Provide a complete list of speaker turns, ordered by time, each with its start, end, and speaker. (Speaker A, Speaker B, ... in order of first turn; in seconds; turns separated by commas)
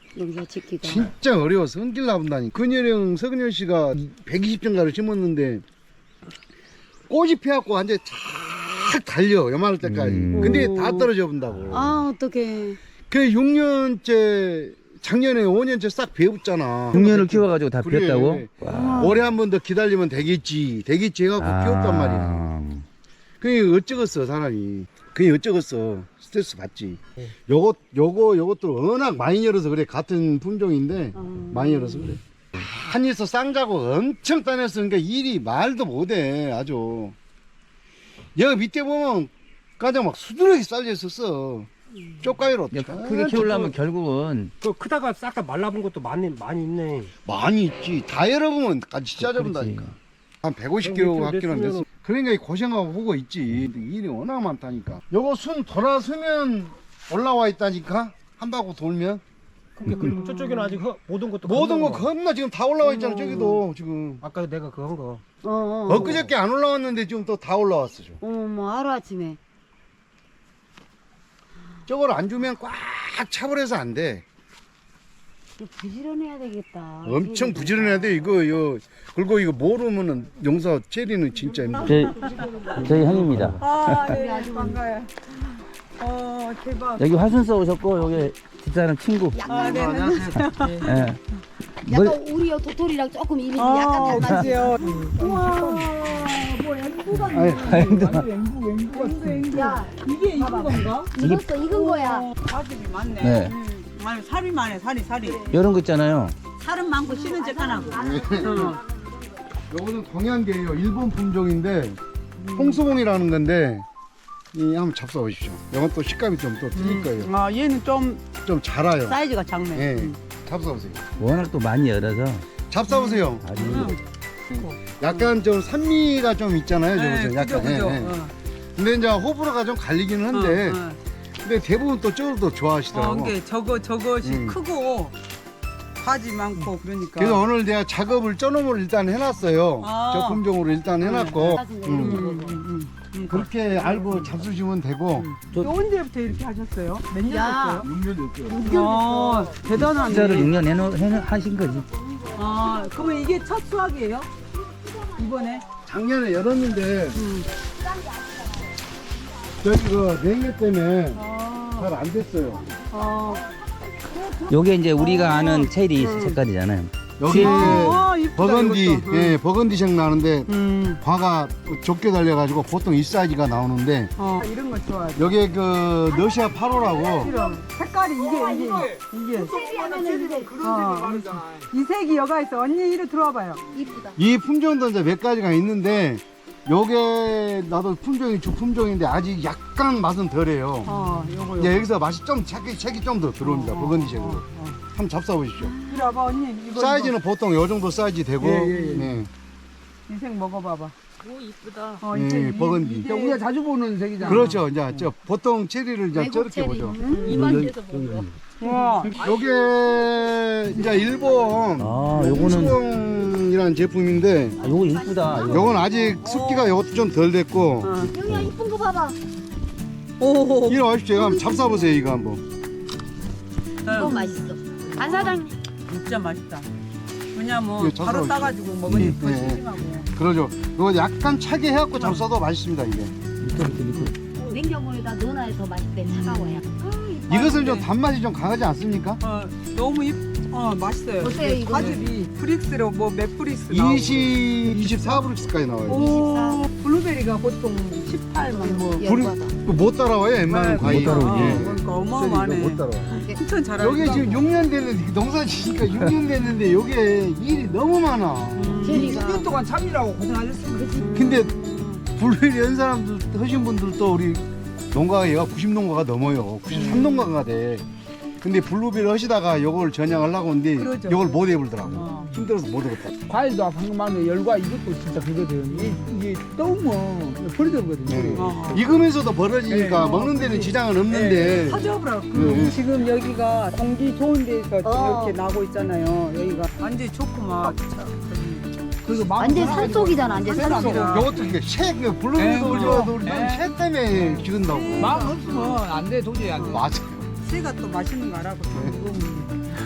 Speaker A: 0.1-1.1, Speaker B: 0.8-5.6, Speaker B: 7.1-12.0, Speaker C: 9.8-10.7, Speaker A: 10.3-11.1, Speaker C: 11.5-11.9, Speaker A: 11.7-12.8, Speaker B: 13.1-22.5, Speaker C: 16.9-19.1, Speaker A: 18.7-19.2, Speaker C: 21.4-22.9, Speaker B: 23.4-37.2, Speaker A: 31.2-32.2, Speaker B: 38.4-41.7, Speaker B: 42.2-43.5, Speaker C: 42.7-44.5, Speaker D: 43.1-43.8, Speaker D: 44.6-47.1, Speaker B: 47.2-59.2, Speaker C: 49.2-49.9, Speaker D: 50.8-51.9, Speaker A: 59.8-60.8, Speaker D: 59.8-62.1, Speaker B: 61.4-64.2, Speaker A: 62.8-63.6, Speaker D: 64.2-65.2, Speaker A: 65.4-66.3, Speaker B: 65.9-68.2, Speaker A: 68.2-69.4, Speaker B: 71.9-74.2, Speaker A: 75.6-78.3, Speaker B: 77.0-82.2, Speaker C: 81.8-82.2, Speaker E: 82.2-82.5, Speaker C: 82.7-84.1, Speaker E: 83.6-85.1, Speaker A: 83.9-84.8, Speaker E: 86.0-87.0, Speaker C: 87.0-89.4, Speaker A: 89.3-90.4, Speaker E: 89.5-90.9, Speaker B: 89.5-90.7, Speaker C: 90.8-91.2, Speaker C: 91.9-92.2, Speaker A: 91.9-95.1, Speaker E: 93.6-97.6, Speaker F: 94.8-99.8, Speaker B: 97.3-97.9, Speaker C: 97.6-98.3, Speaker E: 98.9-101.1, Speaker A: 99.5-102.3, Speaker F: 100.4-101.1, Speaker E: 101.7-105.6, Speaker C: 103.2-103.5, Speaker C: 105.5-106.4, Speaker E: 106.6-108.8, Speaker A: 107.0-109.4, Speaker B: 108.0-108.8, Speaker B: 109.7-112.0, Speaker E: 112.4-112.8, Speaker B: 112.5-113.9, Speaker B: 114.5-117.3, Speaker E: 116.8-118.2, Speaker B: 118.4-119.2, Speaker E: 119.1-120.2, Speaker B: 119.7-121.0, Speaker C: 121.2-122.5, Speaker B: 122.7-123.8, Speaker E: 122.9-125.3, Speaker C: 123.4-124.0, Speaker B: 124.5-128.2, Speaker E: 126.9-128.3, Speaker B: 128.8-130.8, Speaker E: 130.3-131.0, Speaker B: 131.4-133.4, Speaker E: 132.9-135.2, Speaker B: 134.2-134.6, Speaker E: 136.0-137.4, Speaker B: 137.2-142.2, Speaker E: 139.8-140.4, Speaker E: 141.0-144.3, Speaker A: 141.3-142.6, Speaker B: 143.3-145.3, Speaker E: 145.2-147.9, Speaker A: 147.3-147.9, Speaker B: 147.8-148.8, Speaker A: 148.4-150.2, Speaker E: 148.6-150.5, Speaker C: 149.7-151.9, Speaker E: 152.3-154.3, Speaker E: 155.2-155.7, Speaker B: 155.9-157.2, Speaker E: 157.2-157.5, Speaker B: 159.6-162.7, Speaker E: 161.2-161.9, Speaker E: 162.9-163.5, Speaker A: 164.1-164.5, Speaker C: 164.5-167.9, Speaker E: 165.0-166.4, Speaker B: 167.2-174.1, Speaker E: 167.3-169.4, Speaker E: 170.5-171.0, Speaker E: 174.2-175.3, Speaker B: 175.2-177.3, Speaker A: 176.1-177.6, Speaker E: 177.1-179.6, Speaker A: 179.3-180.7, Speaker F: 179.9-181.2, Speaker E: 180.6-183.6, Speaker A: 183.7-184.2, Speaker B: 184.2-190.9, Speaker E: 190.8-191.8, Speaker B: 191.6-195.8, Speaker E: 193.4-194.8, Speaker A: 195.8-196.1, Speaker E: 195.8-197.2, Speaker B: 196.7-199.3, Speaker F: 198.4-199.2, Speaker E: 198.8-199.1, Speaker E: 200.1-200.9, Speaker E: 202.0-203.4, Speaker B: 202.1-203.1, Speaker F: 203.0-204.6, Speaker E: 204.2-204.6, Speaker B: 204.2-207.0, Speaker A: 206.1-207.9, Speaker E: 207.0-207.4, Speaker F: 207.3-208.1, Speaker C: 207.3-208.3, Speaker E: 208.6-209.2, Speaker F: 208.7-208.9, Speaker B: 209.1-214.6, Speaker C: 211.8-212.8, Speaker C: 214.6-215.7, Speaker A: 214.6-216.2, Speaker B: 215.4-218.1, Speaker E: 216.0-216.8, Speaker E: 217.8-218.1, Speaker A: 218.1-219.2, Speaker E: 220.2-220.8, Speaker B: 220.7-222.4, Speaker A: 221.5-221.9, Speaker A: 223.8-225.5, Speaker E: 223.8-226.7, Speaker E: 227.3-230.1, Speaker B: 227.8-229.6, Speaker C: 228.9-229.2, Speaker B: 230.2-233.2, Speaker C: 233.4-234.2, Speaker A: 234.3-237.4, Speaker E: 236.0-237.9, Speaker B: 237.3-239.2, Speaker E: 239.2-245.2, Speaker A: 241.2-242.1, Speaker B: 243.7-246.3, Speaker E: 245.9-249.0, Speaker A: 245.9-246.7, Speaker A: 248.4-249.5, Speaker B: 249.0-253.2, Speaker E: 250.5-254.5, Speaker C: 250.8-251.7, Speaker B: 253.8-259.0, Speaker E: 258.6-259.2, Speaker A: 258.8-259.5, Speaker F: 258.9-261.1, Speaker A: 260.8-262.0, Speaker B: 261.1-261.5, Speaker B: 262.1-267.9, Speaker E: 266.7-267.3, Speaker B: 268.4-273.1, Speaker E: 270.8-271.4, Speaker E: 271.9-272.3, Speaker F: 273.3-278.9, Speaker E: 275.7-276.1, Speaker B: 278.1-282.8, Speaker E: 278.4-278.9, Speaker F: 279.7-281.5, Speaker E: 279.8-280.3, Speaker E: 281.1-288.7, Speaker F: 282.4-282.7, Speaker A: 284.8-285.4, Speaker F: 289.0-291.3, Speaker A: 289.4-291.0, Speaker E: 289.5-291.3, Speaker B: 290.7-295.2, Speaker F: 292.4-293.7, Speaker E: 292.4-293.1, Speaker E: 294.5-295.8, Speaker F: 295.0-296.9, Speaker B: 296.7-297.3, Speaker E: 297.4-299.5, Speaker B: 298.7-299.0